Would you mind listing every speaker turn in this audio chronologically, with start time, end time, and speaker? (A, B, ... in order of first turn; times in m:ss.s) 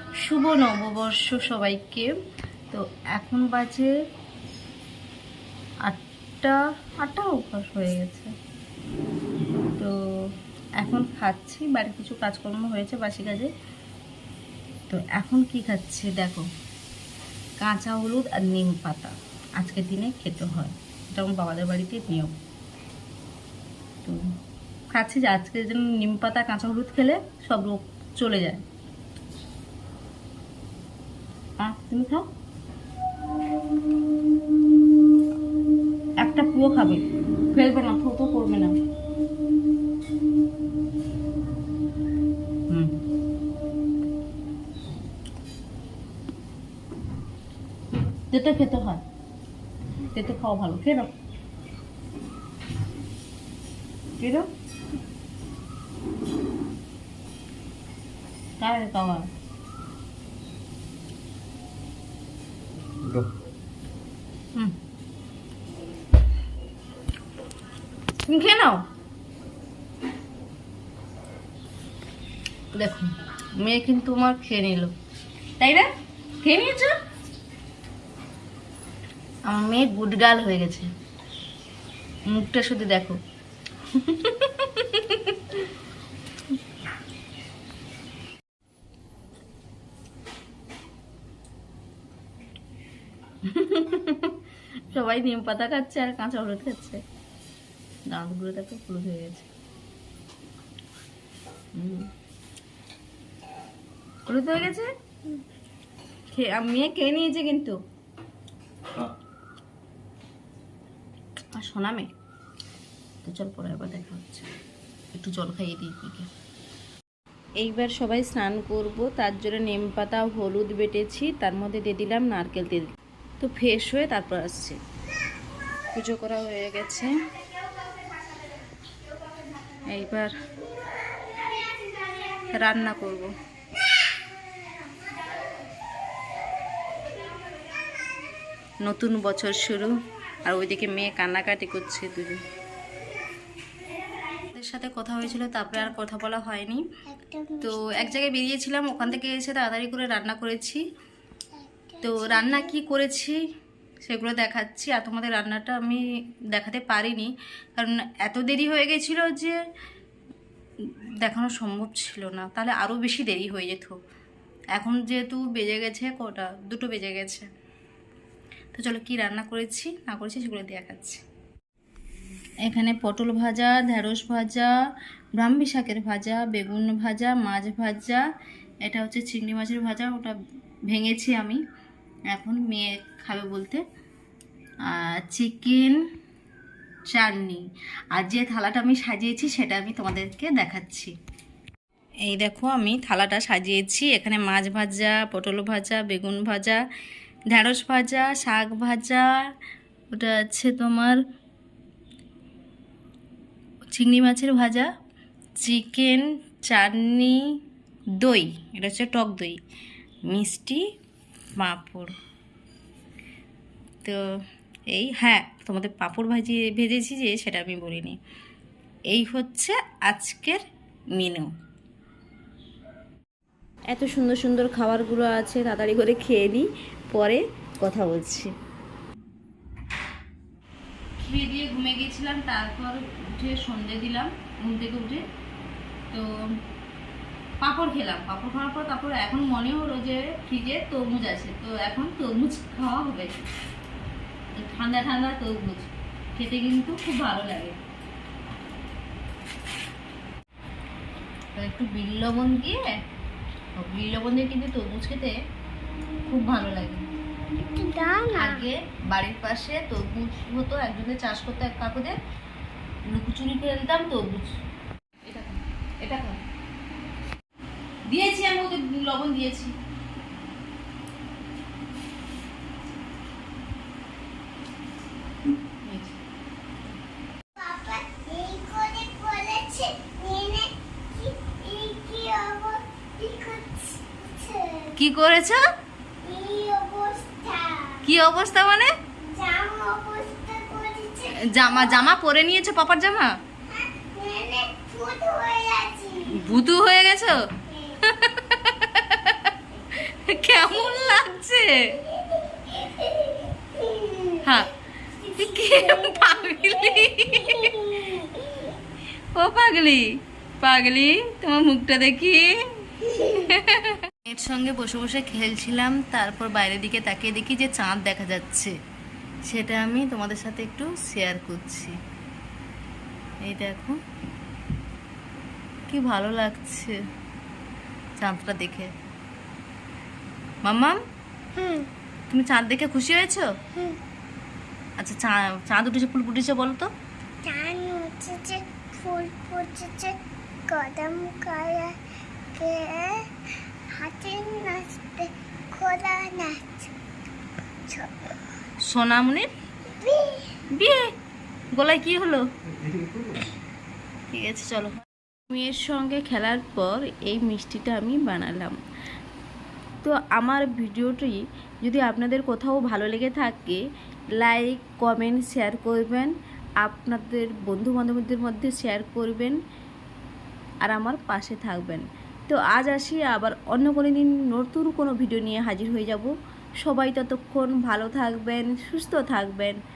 0:00.2-0:02.1 A
0:02.7-0:03.9 A
0:05.8-0:08.3 A
0:10.8-0:13.5 A
0:14.9-0:16.5 A
0:17.6-0:22.3 A
0:24.9-0:28.6 A
0:31.6-0:32.3 A
0:36.2-0:37.0 A
0:37.5-0:38.8 A
0:48.3-0:49.0 A
0:50.1-0:51.1 A
0:54.2-0:54.5 A
0:58.6-0:59.3 A
1:08.2-1:08.8 A
1:12.7-1:14.9 A
1:15.6-1:15.9 A
1:16.4-1:16.9 A
1:19.5-1:20.9 A
1:22.3-1:23.2 A
1:23.9-1:25.6 A
1:33.4-1:34.4 A
1:34.9-1:37.0 A
1:38.1-1:39.5 A
1:41.7-1:42.1 A
1:44.3-1:44.9 A
1:46.3-1:47.8 A
1:51.6-1:52.1 A
1:53.2-1:54.5 A
1:55.1-1:56.3 A
1:57.6-2:04.8 A
2:05.9-2:07.1 A
2:09.9-2:10.3 A
2:12.5-2:13.3 A
2:18.8-2:22.4 A
2:24.5-2:26.8 A
2:27.1-2:28.2 B
2:27.6-2:30.8 A
2:31.5-2:32.7 B
2:32.0-2:33.4 A
2:34.0-2:39.6 A
2:41.2-2:44.0 A
2:44.8-2:47.5 A
2:48.7-2:51.2 A
2:52.6-2:54.7 A
2:55.4-2:58.2 A
2:58.8-3:00.4 A
3:00.9-3:01.6 A
3:02.3-3:03.8 A
3:04.9-3:06.0 A
3:07.1-3:07.6 A
3:08.1-3:11.1 A
3:12.2-3:16.8 A
3:17.5-3:19.3 A
3:20.1-3:21.2 A
3:23.9-3:24.9 A
3:25.6-3:27.4 A
3:28.2-3:29.6 A
3:30.3-3:30.8 A
3:31.6-3:32.1 A
3:34.9-3:38.2 A
3:39.1-3:40.6 A
3:41.1-3:41.5 A
3:43.9-3:48.5 A
3:51.2-3:55.2 A
3:56.1-3:56.6 A
3:57.6-4:03.3 A
4:04.5-4:07.8 A
4:11.6-4:13.0 A
4:13.8-4:15.3 A
4:16.3-4:17.0 A
4:17.6-4:18.6 B
4:18.3-4:22.2 A
4:23.1-4:24.5 A
4:25.2-4:26.4 A
4:28.1-4:29.7 A
4:35.8-4:36.2 A
4:37.6-4:44.9 B
4:45.0-4:45.6 A
4:46.2-4:48.1 B
4:48.0-4:48.9 A
4:49.2-4:52.2 B
4:51.4-4:53.4 A
4:53.7-4:56.6 B
4:56.3-4:57.5 A
4:57.7-4:58.0 B
4:58.0-5:02.0 A
5:00.5-5:01.3 B
5:01.9-5:04.6 B
5:04.4-5:04.7 A
5:05.2-5:08.8 B
5:05.3-5:08.2 A
5:09.3-5:18.7 A
5:19.5-5:22.0 A
5:23.4-5:24.0 A
5:25.9-5:27.0 A
5:28.2-5:28.9 A
5:30.6-5:31.0 A
5:31.5-5:31.9 B
5:32.3-5:33.5 A
5:35.0-5:36.9 A
5:37.4-5:40.2 B
5:40.7-5:42.0 B
5:42.5-5:43.3 B
5:43.9-5:46.9 B
5:47.9-5:48.3 B
5:48.8-5:49.5 A
5:50.0-5:50.6 B
5:50.7-5:51.1 A
5:51.7-5:52.4 A
5:54.3-5:58.8 A
6:00.0-6:03.8 A
6:04.4-6:09.6 A
6:10.8-6:16.3 A
6:16.8-6:19.8 A